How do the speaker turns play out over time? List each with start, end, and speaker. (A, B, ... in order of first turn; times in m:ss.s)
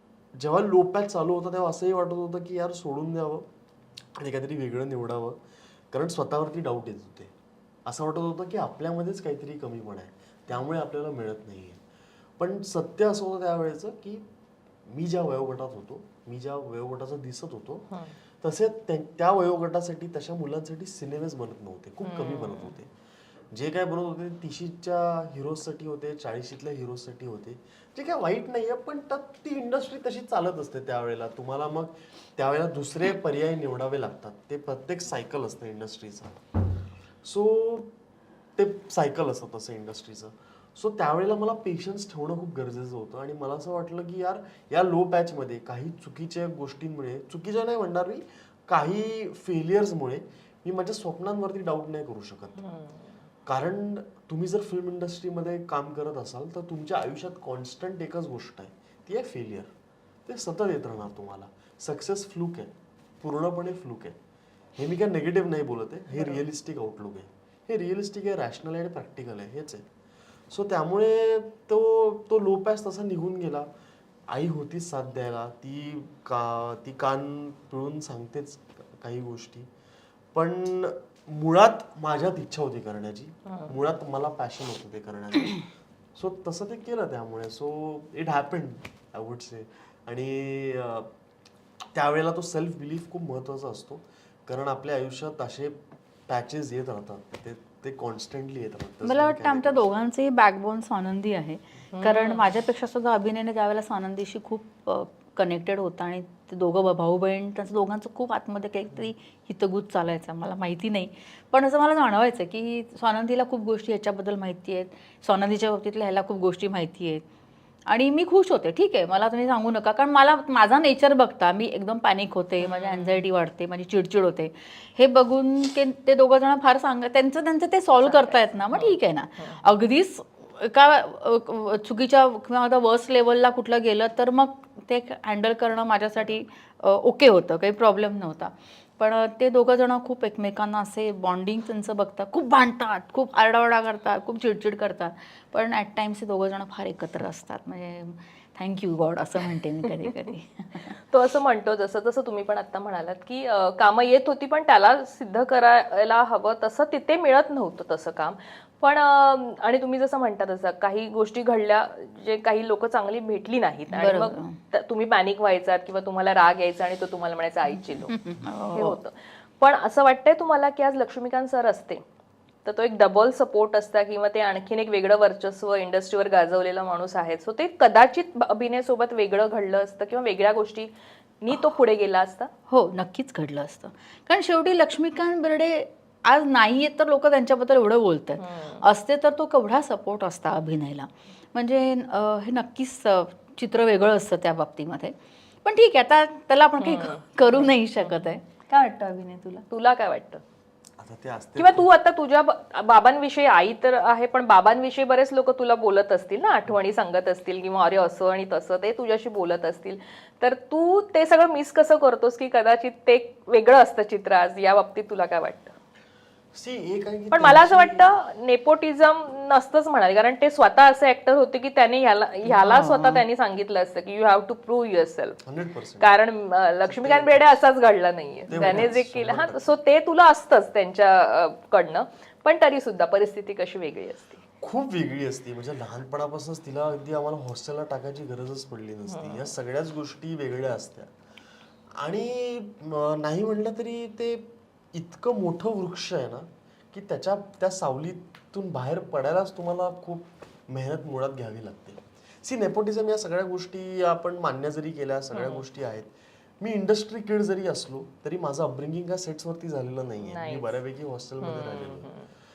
0:00.4-0:03.5 A
0:04.1-0:05.4 A
0:05.9-0:07.3 A
0:07.9-0:11.8 A
0:12.4-0:14.2 A
0:14.9-0:22.9 A
0:22.0-0:22.8 B
0:23.5-0:36.4 A
0:37.2-0:37.9 A
0:38.6-0:52.6 A
0:52.6-0:53.0 B
0:53.5-0:59.7 A
1:00.3-1:04.2 A
1:04.8-1:09.9 A
1:06.1-1:06.4 B
1:10.5-1:13.7 A
1:14.3-1:19.7 A
1:20.3-1:31.1 A
1:23.5-1:23.7 B
1:31.9-1:39.8 A
1:39.0-1:57.2 C
1:41.9-1:42.4 B
1:57.9-2:31.0 C
2:02.6-2:03.2 B
2:08.0-2:09.6 B
2:31.0-2:48.1 B
2:43.9-2:44.6 C
2:47.7-2:49.0 C
2:48.7-2:52.0 B
2:52.6-3:02.5 B
3:02.7-3:19.7 C
3:08.4-3:08.8 B
3:16.8-3:18.4 B
3:19.7-3:20.4 B
3:21.0-3:21.9 A
3:21.6-3:35.7 B
3:36.5-3:38.1 A
3:37.3-3:45.4 B
3:42.5-3:43.2 C
3:45.4-3:46.1 A
3:46.0-3:54.4 B
3:46.8-3:47.5 A
3:48.5-3:49.8 A
3:54.6-4:01.1 A
3:59.1-3:59.5 B
4:02.0-4:22.1 A
4:15.3-4:15.6 B
4:20.2-4:20.8 B
4:21.4-4:22.3 B